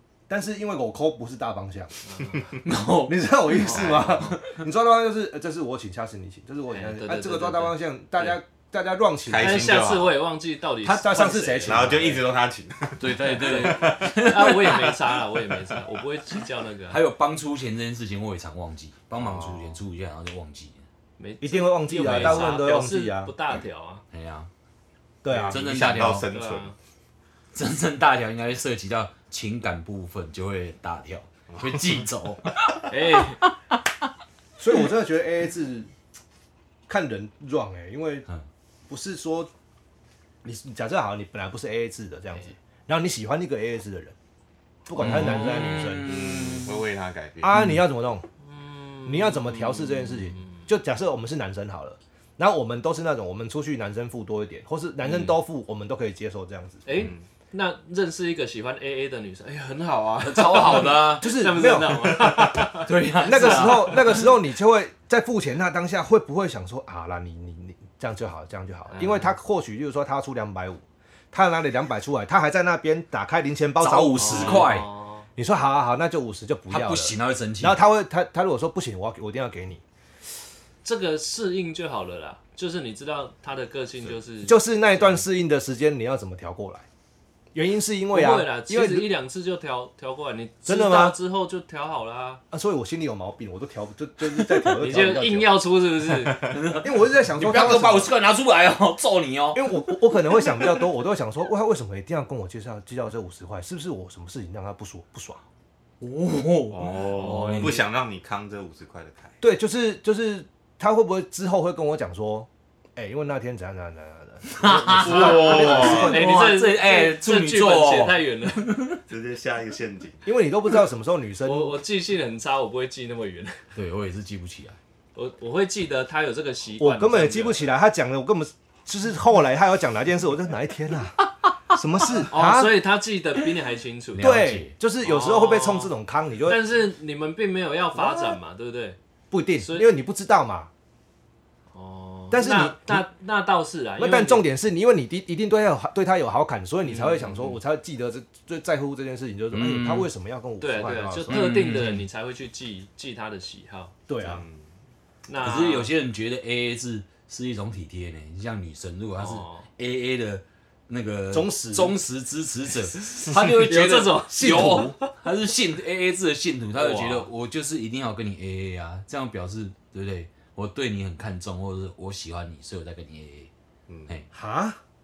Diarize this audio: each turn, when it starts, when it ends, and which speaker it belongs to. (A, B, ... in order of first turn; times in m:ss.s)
0:00.3-0:02.0 A
0:02.0-0:02.5 B
0:02.6-0:04.6 C
0:03.1-0:09.7 A
0:03.6-0:04.2 B
0:06.7-0:08.4 B
0:09.3-0:10.2 D
0:09.4-0:11.9 B
0:10.8-0:12.3 A
0:11.6-0:14.6 D
0:13.0-0:15.0 C
0:13.2-0:17.0 B
0:16.9-0:20.8 C
0:19.2-0:19.8 D
0:21.2-0:24.0 B
0:21.4-0:23.3 A
0:22.0-0:22.5 C
0:24.1-0:24.5 C
0:25.2-0:25.6 A
0:25.3-0:26.7 D
0:25.5-0:26.3 C
0:26.3-0:26.8 B
0:27.5-0:33.8 C
0:31.5-0:31.8 D
0:32.9-0:33.4 B
0:34.6-0:35.9 A
0:36.9-0:38.3 A
0:38.9-0:39.5 A
0:40.4-0:44.2 A
0:44.9-0:46.3 A
0:45.0-0:46.8 C
0:45.3-0:47.6 D
0:47.4-0:48.2 A
0:47.5-0:47.8 C
0:48.4-0:50.6 B
0:49.0-0:56.8 A
0:55.1-0:55.3 B
0:56.9-1:04.3 B
0:56.9-0:57.2 D
1:00.2-1:01.6 C
1:00.9-1:14.8 A
1:02.4-1:04.3 C
1:08.9-1:09.3 B
1:13.8-1:14.9 C
1:14.2-1:15.3 B
1:15.4-1:19.8 A
1:16.7-1:17.8 C
1:20.8-1:25.2 B
1:24.4-1:26.8 A
1:27.5-1:29.1 A
1:28.1-1:32.4 B
1:30.7-1:31.2 A
1:32.5-1:35.6 A
1:34.6-1:36.5 B
1:36.4-1:39.8 C
1:36.7-1:38.1 A
1:39.5-1:45.4 A
1:46.0-1:47.8 C
1:46.7-1:49.4 D
1:47.2-1:47.8 B
1:49.4-1:56.5 A
1:54.5-1:59.0 C
1:54.9-1:56.2 D
1:55.2-1:58.8 B
1:59.1-2:00.2 D
2:00.2-2:01.8 A
2:01.4-2:03.6 B
2:03.8-2:04.8 C
2:05.2-2:07.7 B
2:06.8-2:12.9 A
2:12.3-2:14.4 B
2:14.2-2:14.7 C
2:14.2-2:16.7 A
2:15.0-2:15.9 B
2:16.5-2:19.0 B
2:18.0-2:18.4 A
2:19.3-2:20.7 A
2:19.6-2:19.9 B
2:21.7-2:24.5 B
2:22.3-2:23.1 A
2:24.0-2:31.7 A
2:26.8-2:27.6 B
2:29.5-2:30.1 C
2:30.6-2:33.9 B
2:31.3-2:32.1 C
2:34.1-2:34.4 A
2:34.2-2:34.6 D
2:35.3-2:35.9 B
2:35.4-2:53.5 C
2:39.2-2:39.7 B
2:41.3-2:42.0 A
2:43.2-2:45.1 B
2:44.3-2:45.0 A
2:46.8-2:47.3 B
2:54.3-2:54.8 A